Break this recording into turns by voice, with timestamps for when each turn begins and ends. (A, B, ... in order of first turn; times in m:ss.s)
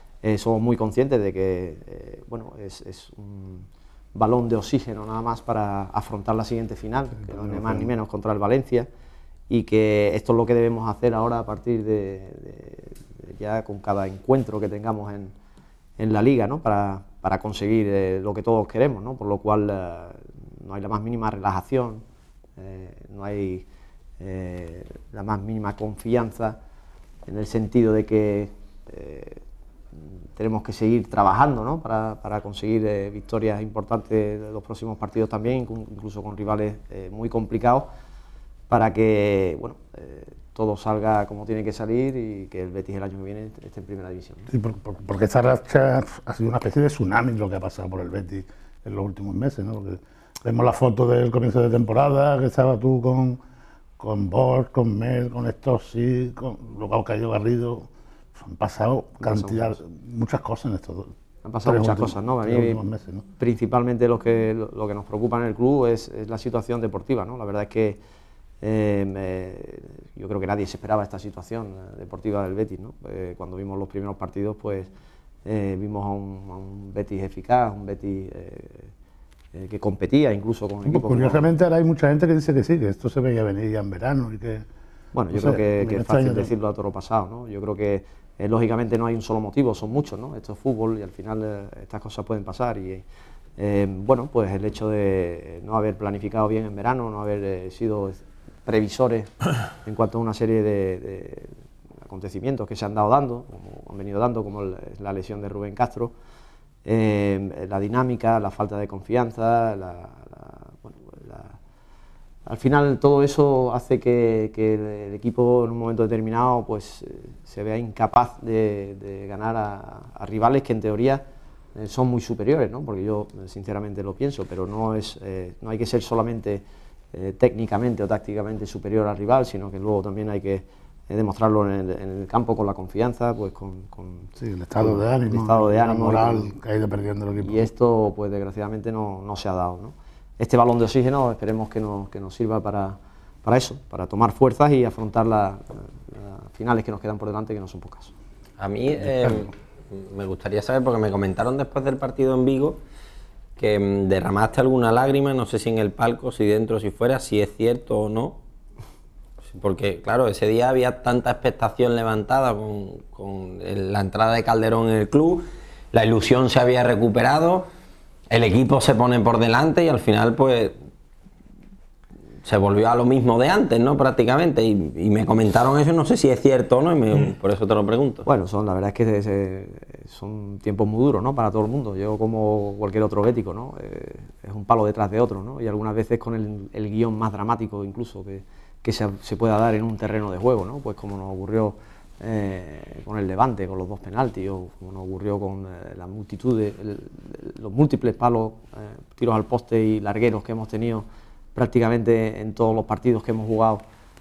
0:00.2-0:08.9 A
0:07.4-0:07.8 B
0:09.5-0:15.3 A
0:16.0-0:22.0 A
0:22.6-0:23.7 A
0:24.2-0:26.6 A
0:27.3-0:29.4 A
0:30.0-0:37.9 A
0:38.7-0:44.5 A
0:44.5-0:53.4 B
0:54.0-1:01.1 B
0:59.2-0:59.8 A
1:01.4-1:02.8 A
1:01.6-1:03.2 B
1:03.4-1:08.0 A
1:08.6-1:14.9 A
1:15.4-1:18.9 A
1:19.5-1:21.5 A
1:20.9-1:24.7 B
1:25.1-1:33.0 A
1:25.3-1:26.5 B
1:33.6-1:41.5 A
1:42.1-1:46.1 A
1:46.8-1:51.6 A
1:52.5-2:01.2 A
2:01.8-2:16.6 A
2:14.4-2:17.7 B
2:17.4-2:28.1 A
2:28.6-2:32.8 C
2:33.6-2:38.4 C
2:39.5-2:47.7 C
2:48.3-2:50.8 C
2:52.4-2:58.3 C
2:58.3-3:23.8 A